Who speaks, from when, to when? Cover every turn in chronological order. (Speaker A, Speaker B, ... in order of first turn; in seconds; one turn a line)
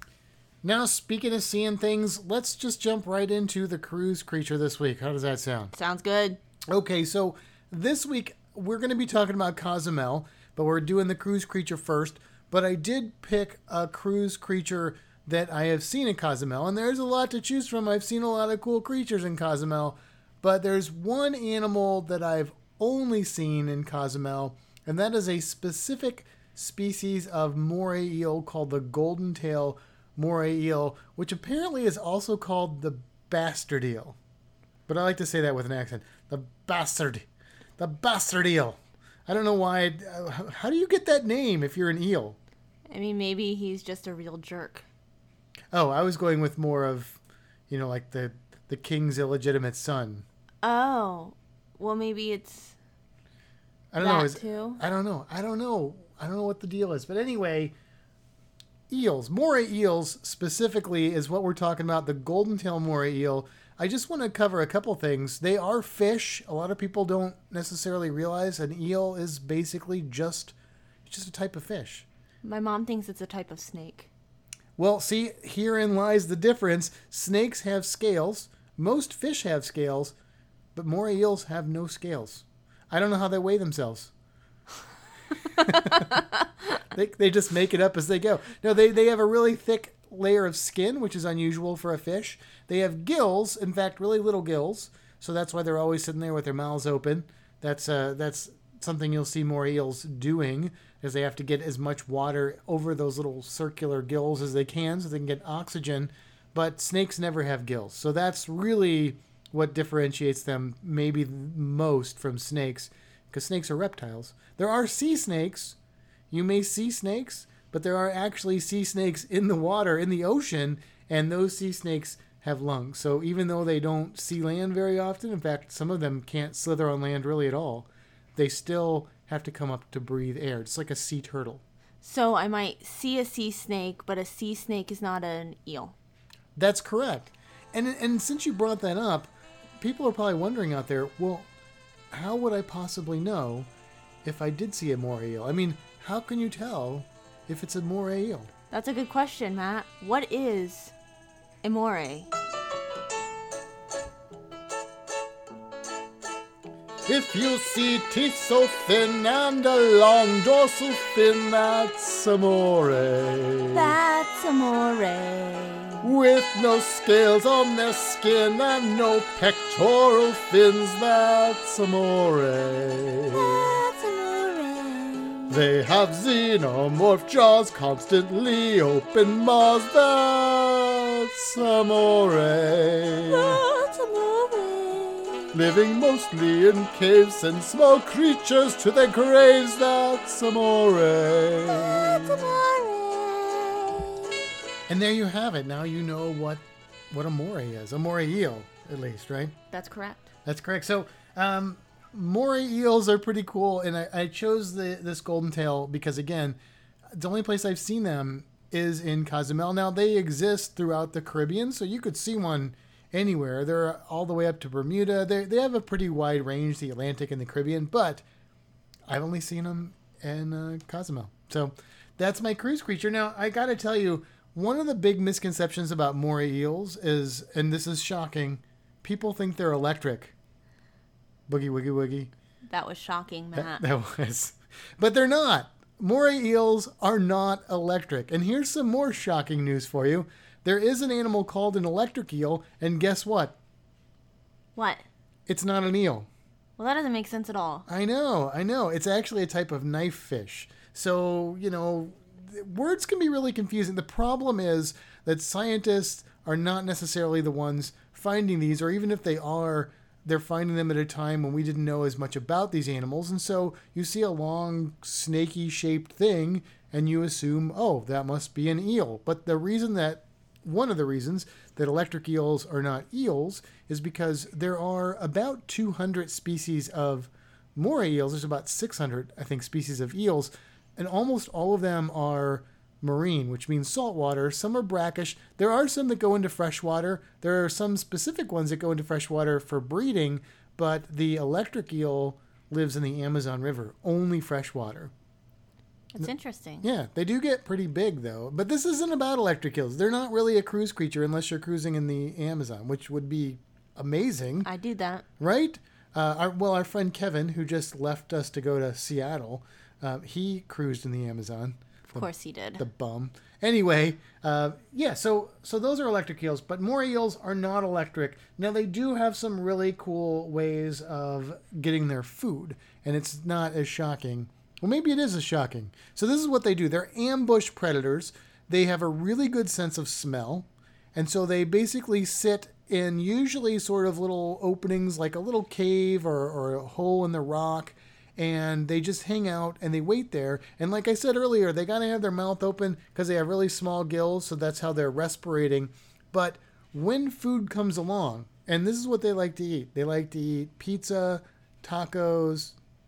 Speaker A: 0.6-5.7
Speaker B: 5.7-6.4
Speaker A: 6.7-34.2
Speaker A: 34.9-37.3
Speaker A: 37.8-42.4
Speaker B: 42.9-44.9
Speaker A: 45.7-50.2
Speaker B: 50.6-52.8
Speaker A: 53.9-57.7
Speaker B: 54.0-54.8
Speaker A: 58.9-70.5
Speaker A: 71.1-72.1
Speaker B: 72.4-74.1
Speaker A: 74.8-80.2
Speaker A: 80.8-84.1
Speaker B: 85.6-86.2
Speaker A: 85.6-86.2
Speaker A: 86.9-115.8
Speaker A: 116.3-131.6
Speaker B: 132.0-135.9
Speaker A: 136.6-141.5
Speaker A: 142.1-143.7
Speaker A: 144.2-148.5
Speaker B: 148.7-150.9
Speaker B: 151.6-152.3
Speaker A: 157.1-164.0
Speaker B: 163.7-166.1
Speaker A: 166.0-173.7
Speaker B: 173.3-175.6
Speaker A: 175.5-183.6
Speaker B: 183.2-185.6
Speaker A: 185.5-192.6
Speaker B: 191.7-194.2
Speaker A: 194.9-199.6
Speaker B: 199.7-200.3
Speaker A: 200.4-206.6
Speaker A: 207.1-218.2
Speaker A: 219.1-230.3
Speaker A: 231.5-232.3
Speaker B: 232.7-233.8
Speaker A: 233.6-243.6
Speaker B: 244.8-245.1
Speaker A: 245.5-246.3
Speaker B: 246.8-247.9
Speaker A: 247.9-295.1
Speaker B: 296.1-296.9
Speaker A: 296.8-304.7
Speaker B: 304.6-305.2
Speaker A: 305.4-352.8
Speaker B: 312.1-312.8